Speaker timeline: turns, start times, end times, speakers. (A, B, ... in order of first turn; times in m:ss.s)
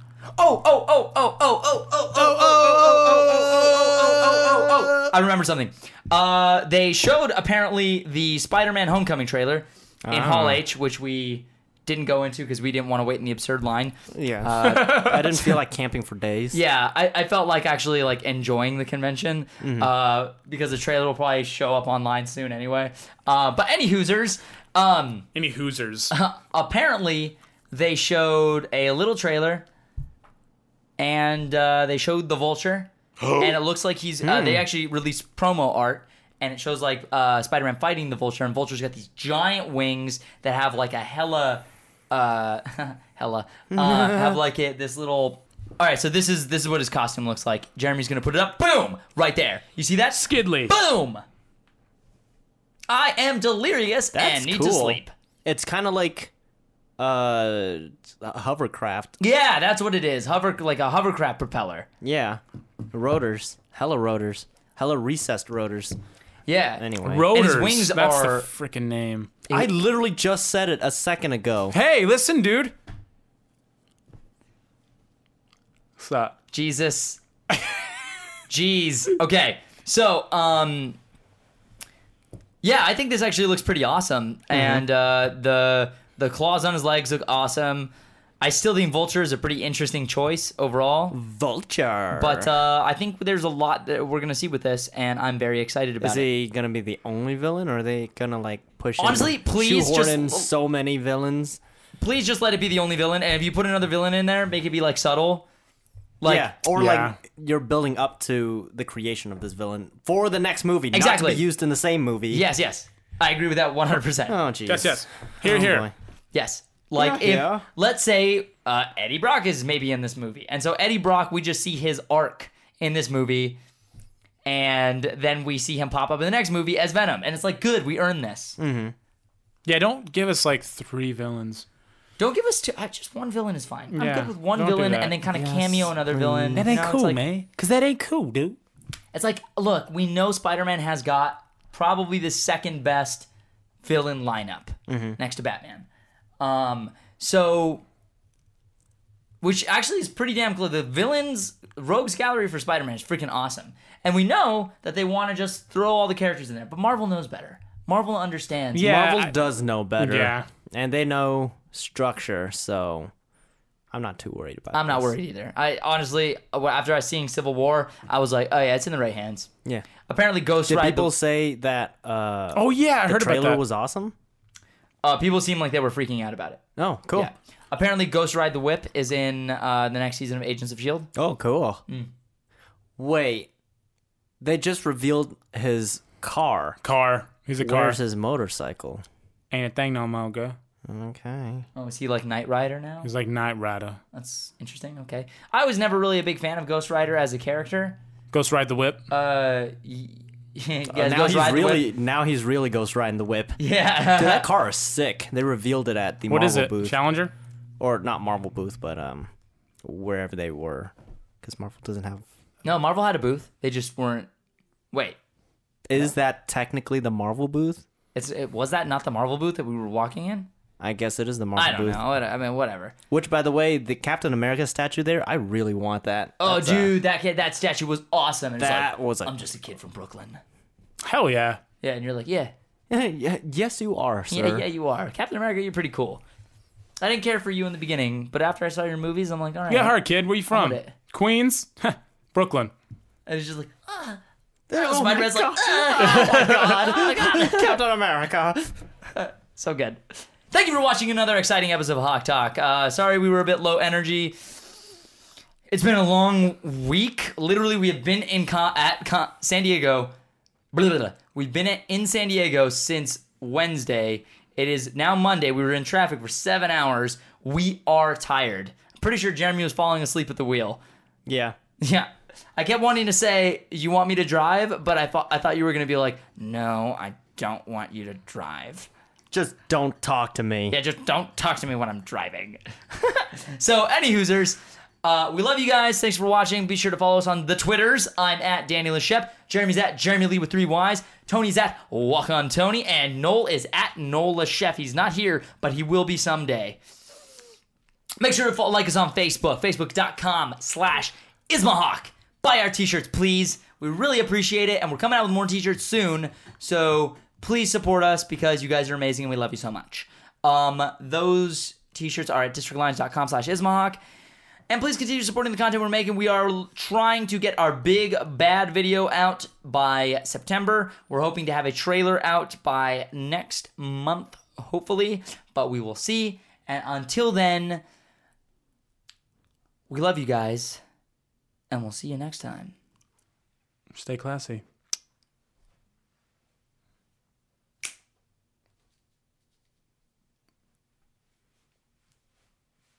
0:00.4-0:15.5 A
0:02.1-0:05.1 B
0:10.0-0:10.6 B
0:14.1-0:16.6 B
0:14.6-0:15.5 C
0:16.5-0:25.3 A
0:19.6-0:19.9 B
0:25.3-0:26.1 C
0:26.1-0:29.6 A
0:31.0-0:51.2 A
0:34.2-0:34.7 B
0:43.7-0:44.4 B
0:50.2-0:50.7 C
0:52.9-0:55.1 A
0:54.1-0:56.3 B
0:57.0-0:59.2 B
0:59.2-1:01.9 A
1:02.0-1:02.4 B
1:02.9-1:06.0 B
1:06.5-1:08.5 A
1:06.8-1:07.3 B
1:07.0-1:09.4 C
1:09.5-1:11.8 B
1:11.7-1:12.7 C
1:16.0-1:16.3 C
1:16.5-1:17.2 A
1:18.5-1:21.0 A
1:22.6-1:31.2 A
1:24.5-1:24.8 B
1:31.1-1:32.5 B
1:32.1-1:36.2 A
1:36.0-1:41.6 B
1:39.0-1:40.5 A
1:42.0-1:45.4 A
1:46.2-1:46.5 A
1:46.2-1:52.4 B
1:46.7-1:47.2 C
1:50.9-1:51.4 A
1:52.3-1:54.4 A
1:54.3-1:55.9 B
1:54.7-1:55.9 C
1:56.3-2:03.6 A
1:57.0-1:57.6 B
2:04.4-2:08.6 A
2:08.6-2:08.9 B
2:09.6-2:11.6 C
2:12.2-2:17.2 A
2:13.9-2:15.2 C
2:15.3-2:16.8 B
2:16.5-2:18.6 C
2:19.1-2:23.3 A
2:23.8-2:25.8 A
2:24.9-2:25.2 B
2:26.4-2:27.8 A
2:29.4-2:39.1 A
2:38.7-2:39.3 C
2:38.8-2:43.1 B
2:40.0-2:40.5 C
2:43.9-2:45.1 B
2:44.7-2:49.5 A
2:50.1-2:51.1 A
2:50.7-2:54.1 B
2:52.5-2:53.6 C
2:55.0-2:56.6 A
2:56.8-2:57.3 B
2:57.1-3:01.1 A
3:01.2-3:01.8 B
3:03.0-3:03.5 B
3:04.4-3:06.8 B
3:06.8-3:08.0 C
3:07.6-3:09.0 B
3:09.5-3:10.6 C
3:10.8-3:11.7 B
3:11.8-3:13.1 A
3:13.0-3:14.0 C
3:14.1-3:18.0 A
3:18.3-3:19.0 C
3:19.1-3:21.9 A
3:20.9-3:23.6 B
3:23.6-3:24.5 A
3:24.1-3:27.0 B
3:26.3-3:27.3 C
3:27.8-3:29.3 B
3:29.8-3:32.2 B
3:32.6-3:34.3 A
3:34.9-3:35.2 A
3:35.9-3:37.8 B
3:38.1-3:40.5 A
3:40.8-3:42.0 B
3:41.6-3:43.0 A
3:43.1-3:47.0 B
3:46.4-3:50.4 A
3:48.6-3:49.3 B
3:51.0-3:51.6 C
3:51.8-3:52.5 A
3:52.9-3:54.6 B
3:54.3-3:56.2 A
3:57.0-4:00.0 A
3:59.7-4:02.7 C
4:00.5-4:00.9 A
4:03.3-4:04.2 A
4:04.7-4:08.7 B
4:04.7-4:07.8 A
4:06.0-4:06.3 C
4:09.1-4:14.4 A
4:15.7-4:20.1 A
4:20.7-4:30.8 A
4:31.2-4:31.6 B
4:31.8-4:38.9 A
4:39.3-4:40.8 B
4:40.7-4:56.8 A
4:58.2-5:14.0 A
5:14.7-5:27.8 A
5:29.9-5:30.8 A
5:31.7-5:32.7 A
5:33.9-5:34.6 C